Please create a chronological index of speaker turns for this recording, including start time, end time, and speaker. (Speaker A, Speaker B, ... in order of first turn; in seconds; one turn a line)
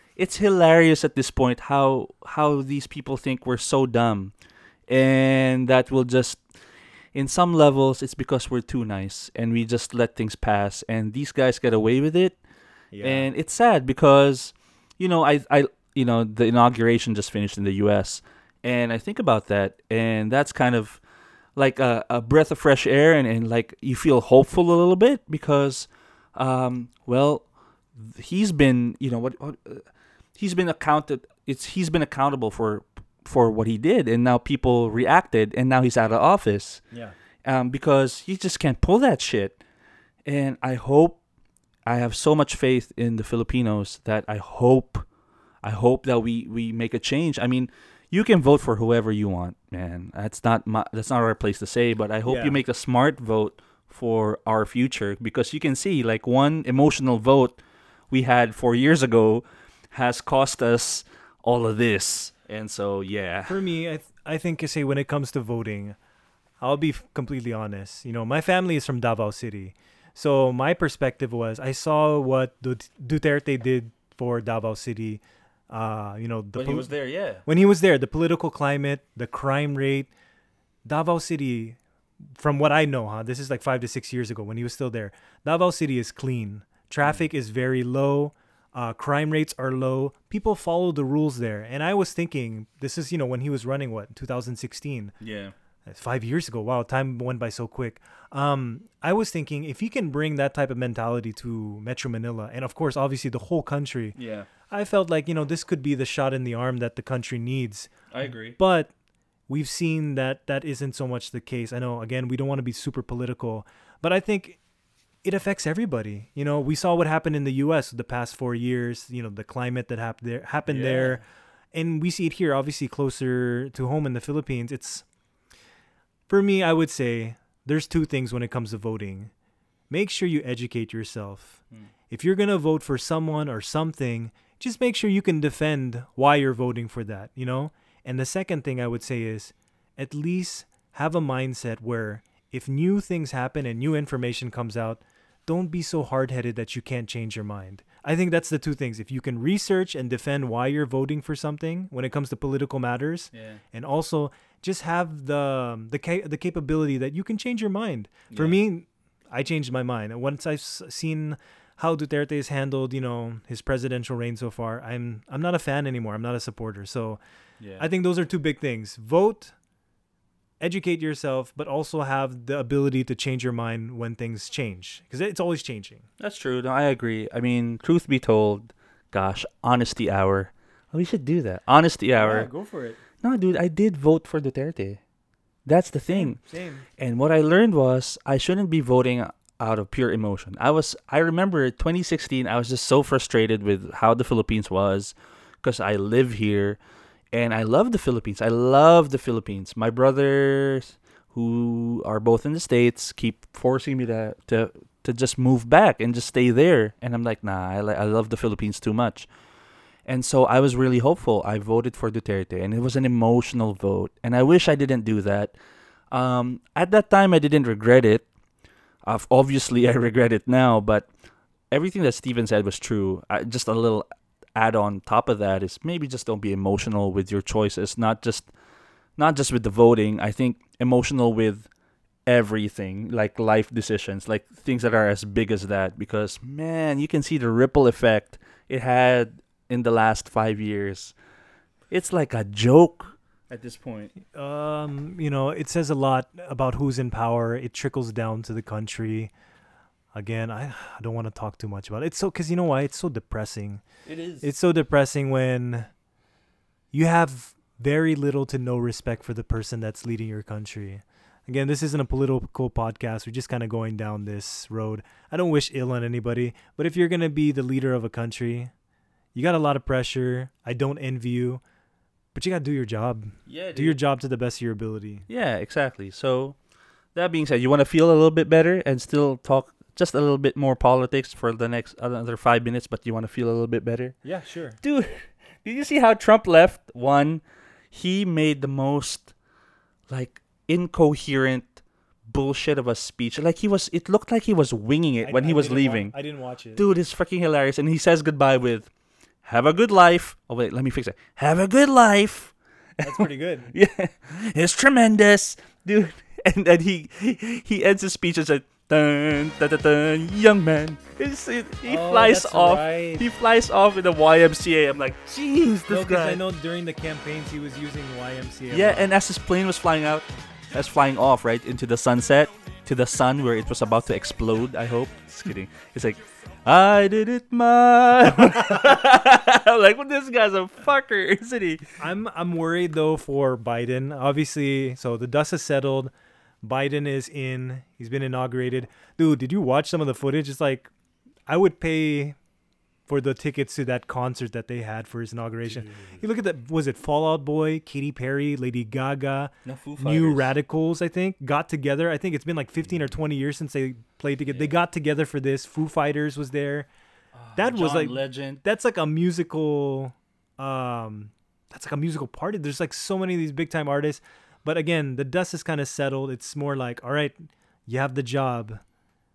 Speaker A: 0.2-4.3
Speaker A: 4.9-6.5
Speaker A: 7.1-12.4
Speaker B: 12.9-13.3
Speaker A: 13.0-21.0
Speaker A: 21.6-36.9
Speaker A: 37.4-39.6
Speaker A: 40.3-41.2
Speaker A: 41.9-45.0
Speaker A: 45.6-57.6
Speaker B: 52.2-52.6
Speaker A: 58.1-63.6
Speaker B: 63.5-66.0
Speaker B: 66.6-76.9
Speaker A: 76.5-77.4
Speaker B: 77.5-80.1
Speaker B: 80.9-81.8
Speaker B: 82.4-95.2
Speaker A: 95.2-95.5
Speaker B: 95.9-104.2
Speaker A: 104.2-104.5
Speaker B: 104.7-108.9
Speaker A: 108.1-108.6
Speaker B: 109.5-114.6
Speaker B: 115.2-121.2
Speaker A: 120.7-121.2
Speaker B: 121.7-125.0
Speaker B: 126.3-129.3
Speaker B: 129.9-167.2
Speaker A: 153.3-153.6
Speaker A: 158.3-158.6
Speaker A: 167.6-167.9
Speaker B: 167.8-169.5
Speaker B: 170.6-176.1
Speaker A: 176.2-182.5
Speaker B: 182.2-183.0
Speaker A: 183.2-185.0
Speaker A: 185.7-186.4
Speaker B: 186.1-186.9
Speaker A: 187.0-196.8
Speaker A: 197.3-209.3
Speaker A: 210.1-215.5
Speaker A: 216.1-218.2
Speaker A: 219.1-221.1
Speaker A: 221.7-228.5
Speaker A: 229.2-231.7
Speaker A: 232.3-241.2
Speaker A: 241.9-244.1
Speaker B: 244.3-249.3
Speaker B: 250.1-253.8
Speaker A: 254.1-254.5
Speaker B: 254.4-255.9
Speaker B: 256.9-268.7
Speaker B: 269.4-271.6
Speaker B: 272.3-275.2
Speaker A: 273.5-274.0
Speaker A: 275.3-276.6
Speaker A: 277.1-284.2
Speaker B: 284.2-284.8
Speaker A: 284.8-289.3
Speaker A: 290.1-296.1
Speaker B: 295.2-296.8
Speaker A: 296.8-298.9
Speaker A: 299.4-316.4
Speaker B: 303.0-303.7
Speaker B: 311.9-313.3
Speaker B: 315.9-319.1
Speaker A: 318.7-331.8
Speaker B: 332.0-340.9
Speaker B: 341.5-342.4
Speaker B: 343.1-356.9
Speaker A: 345.7-346.2
Speaker A: 349.6-350.5
Speaker A: 354.5-354.8
Speaker A: 357.4-358.6
Speaker B: 357.6-368.8